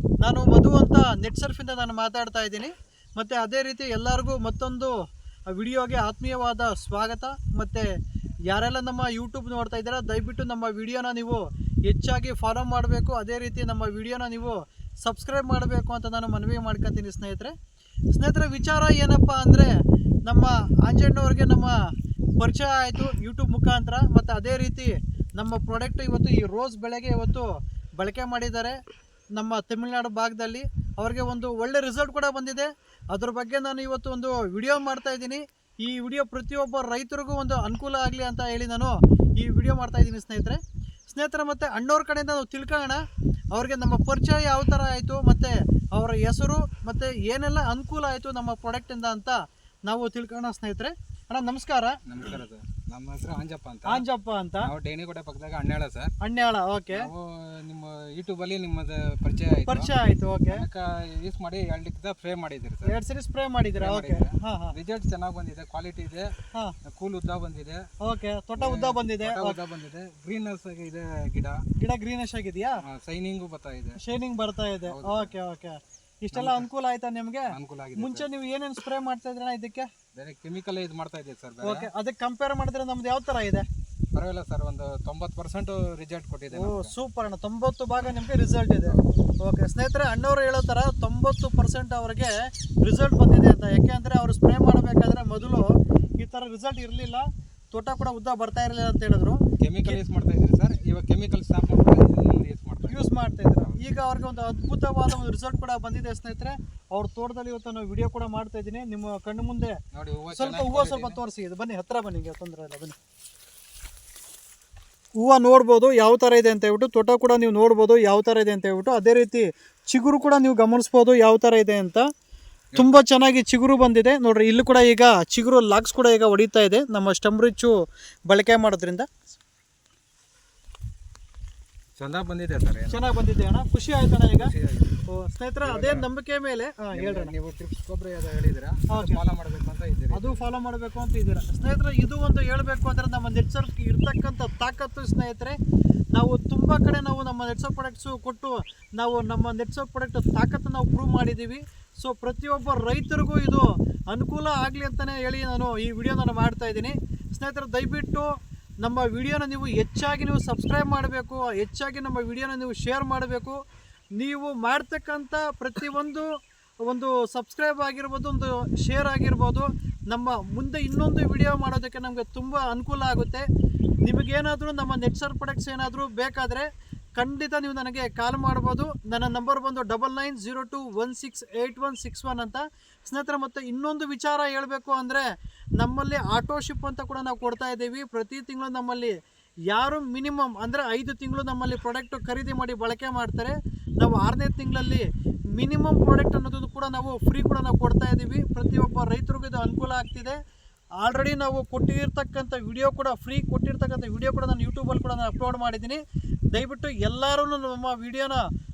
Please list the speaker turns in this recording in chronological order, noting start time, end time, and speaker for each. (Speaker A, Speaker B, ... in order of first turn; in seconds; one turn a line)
Speaker A: 0.2-4.9
Speaker A: 5.5-7.9
Speaker A: 8.5-17.5
Speaker A: 18.1-19.7
Speaker A: 20.3-21.8
Speaker A: 22.4-28.8
Speaker A: 29.4-43.0
Speaker A: 43.5-52.0
Speaker B: 52.0-54.0
Speaker A: 53.9-54.7
Speaker B: 54.6-56.1
Speaker A: 56.2-57.1
Speaker B: 56.9-59.9
Speaker A: 59.7-60.6
Speaker B: 60.5-63.0
Speaker A: 62.8-64.7
Speaker B: 63.8-66.3
Speaker B: 66.8-67.8
Speaker A: 68.0-69.6
Speaker B: 68.6-71.6
Speaker A: 71.8-72.8
Speaker B: 72.8-74.0
Speaker A: 74.0-79.9
Speaker B: 74.8-75.3
Speaker B: 76.3-76.7
Speaker B: 77.5-78.2
Speaker B: 80.1-81.9
Speaker A: 81.6-83.6
Speaker B: 84.1-86.9
Speaker A: 86.5-100.0
Speaker B: 88.8-89.3
Speaker B: 99.6-103.1
Speaker A: 102.9-109.8
Speaker B: 109.9-111.2
Speaker A: 110.3-113.0
Speaker A: 115.2-122.0
Speaker B: 122.7-123.0
Speaker A: 122.8-127.8
Speaker A: 128.3-129.1
Speaker B: 132.0-133.2
Speaker A: 132.9-134.5
Speaker B: 134.3-135.0
Speaker A: 135.1-137.3
Speaker B: 135.6-136.0
Speaker B: 136.9-140.5
Speaker A: 138.9-139.2
Speaker A: 140.1-145.6
Speaker A: 146.1-158.3
Speaker A: 158.8-163.6
Speaker A: 164.2-166.3
Speaker A: 166.9-173.4
Speaker A: 174.0-185.2
Speaker A: 185.8-189.1
Speaker A: 189.7-200.4
Speaker A: 201.0-206.0
Speaker A: 206.5-208.4